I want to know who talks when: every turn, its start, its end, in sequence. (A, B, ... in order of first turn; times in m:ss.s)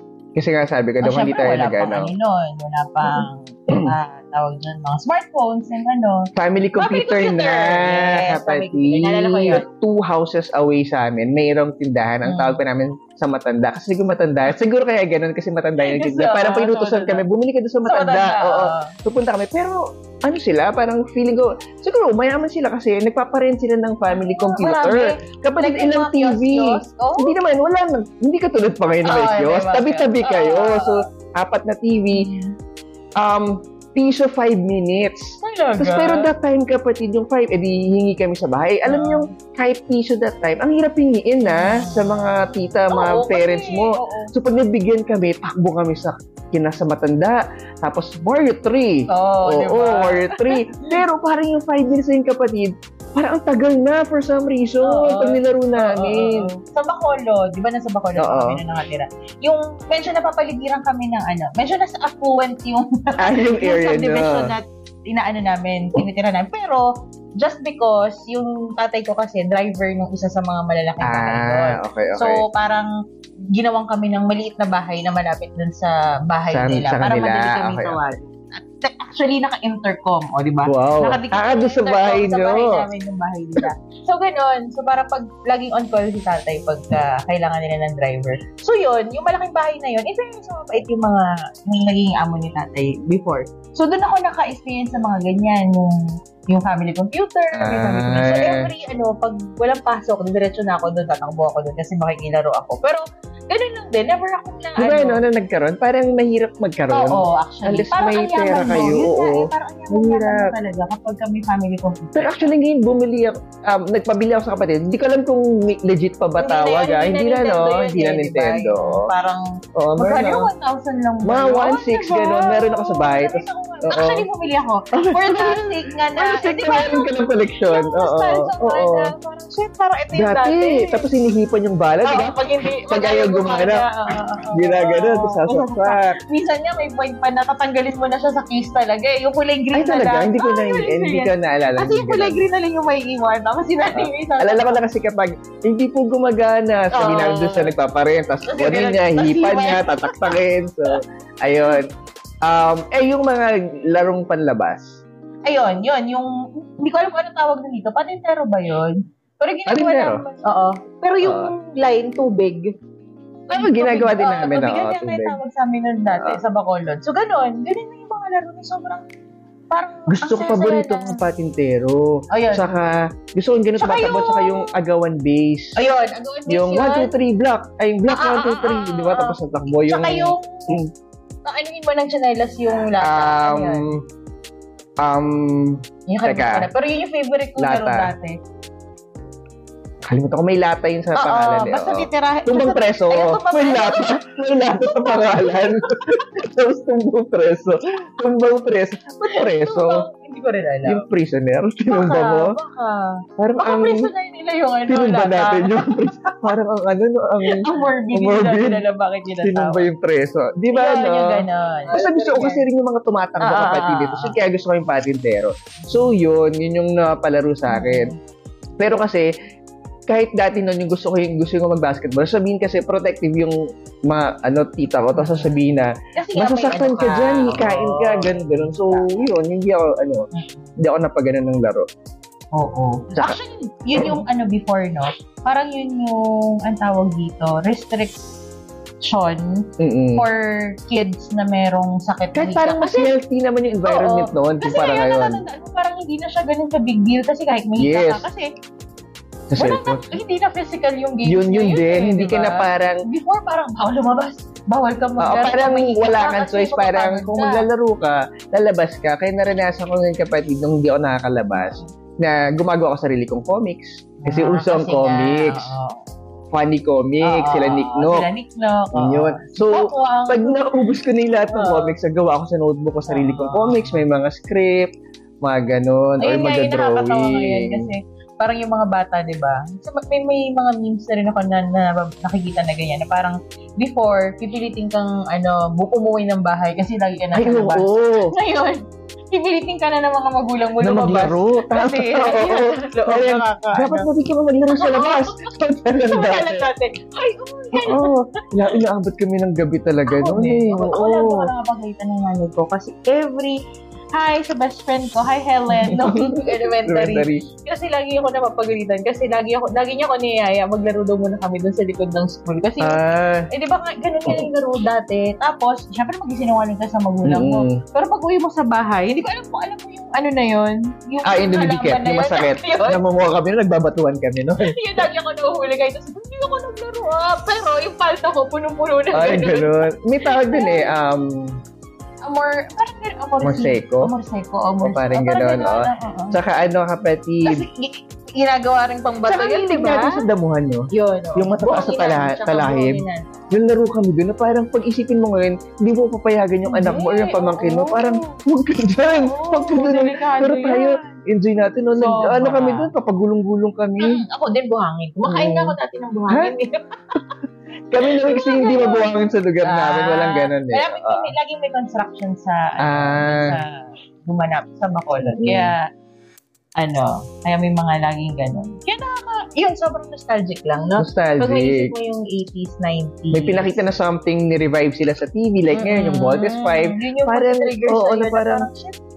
0:00.4-0:02.1 A
0:01.0-0:09.7 B
0:03.1-0:03.9 A
0:06.4-0:32.3 A
0:12.2-0:12.6 B
0:15.8-0:17.2 B
0:17.8-0:18.9 B
0:24.1-0:27.3 B
0:29.0-0:31.0 B
0:32.1-0:32.5 B
0:33.2-0:56.5 A
0:35.4-0:36.3 B
0:38.9-0:39.3 B
0:41.4-0:44.3 B
0:49.1-0:51.0 B
0:54.8-1:12.9 B
0:58.2-0:58.6 A
1:03.2-1:04.5 A
1:11.0-1:12.4 A
1:13.5-1:45.2 B
1:16.5-1:18.0 A
1:20.7-1:22.8 A
1:37.5-1:38.7 A
1:44.8-1:50.5 A
1:46.9-1:52.5 B
1:52.2-1:59.1 A
1:56.4-2:11.2 B
1:59.8-2:00.5 A
2:01.2-2:04.3 A
2:04.9-2:09.1 A
2:10.2-2:12.4 A
2:12.0-2:24.8 B
2:12.9-2:13.8 A
2:14.6-2:16.2 A
2:19.7-2:22.4 A
2:23.9-2:31.9 A
2:26.9-2:27.7 B
2:28.5-2:30.4 B
2:32.4-2:35.0 A
2:35.5-2:42.7 B
2:39.7-2:40.2 A
2:41.2-2:41.5 A
2:43.5-2:49.0 B
2:43.5-2:45.4 A
2:49.7-2:51.2 B
2:50.1-2:55.8 A
2:52.3-2:52.8 B
2:53.8-2:54.7 B
2:55.8-2:57.1 B
2:56.5-3:00.9 A
2:58.1-3:00.8 B
3:01.4-3:03.9 B
3:03.0-3:04.0 A
3:05.0-3:06.7 A
3:06.1-3:08.4 B
3:07.6-3:08.1 A
3:10.0-3:20.1 A
3:11.2-3:16.2 B
3:19.2-3:21.1 B
3:20.8-3:22.5 A
3:21.9-3:26.5 B
3:23.4-3:24.1 A
3:24.9-3:28.8 A
3:27.4-3:29.9 B
3:29.4-3:38.1 A
3:30.7-3:32.6 B
3:33.4-3:34.4 B
3:35.8-3:36.1 B
3:37.7-3:38.2 B
3:38.8-3:39.3 A
3:40.1-3:43.6 A
3:44.1-3:50.3 A
3:45.2-3:45.6 B
3:46.2-3:49.2 B
3:50.3-3:50.8 B
3:50.8-3:51.9 A
3:52.5-3:58.2 B
3:54.0-3:54.2 A
3:59.0-4:03.1 B
3:59.8-4:00.2 A
4:02.3-4:05.4 A
4:03.8-4:08.5 B
4:07.8-4:08.3 A
4:09.5-4:10.2 A
4:09.6-4:17.7 B
4:11.3-4:13.0 A
4:15.2-4:25.7 A
4:21.6-4:21.9 B
4:24.2-4:26.1 B
4:26.5-4:28.3 A
4:27.2-4:30.8 B
4:28.9-4:34.9 A
4:31.5-4:32.0 B
4:33.1-4:34.0 B
4:35.4-4:37.9 A
4:36.2-4:54.1 B
4:47.3-4:48.4 A
4:50.8-4:56.7 A
4:54.7-4:58.7 B
4:57.7-5:01.5 A
5:00.1-5:03.6 B
5:04.1-5:23.0 B
5:05.7-5:07.5 A
5:12.8-5:13.5 A
5:17.2-5:17.8 A
5:21.2-5:25.0 A
5:24.6-5:30.9 B
5:29.1-5:31.6 A
5:32.2-5:36.4 B
5:33.4-5:34.1 A
5:34.8-5:37.7 A
5:37.4-5:40.2 B
5:39.3-5:54.2 A
5:40.9-5:43.6 B
5:46.6-5:48.4 B
5:49.2-5:51.2 B
5:52.0-5:52.9 B
5:54.0-5:57.4 B
5:55.3-5:55.8 A
5:57.9-6:01.3 A
5:58.1-6:05.9 B
6:02.8-6:03.6 A
6:05.2-6:05.7 A
6:06.8-6:13.8 B
6:11.0-6:11.9 A
6:13.3-6:18.7 A
6:15.7-6:19.0 B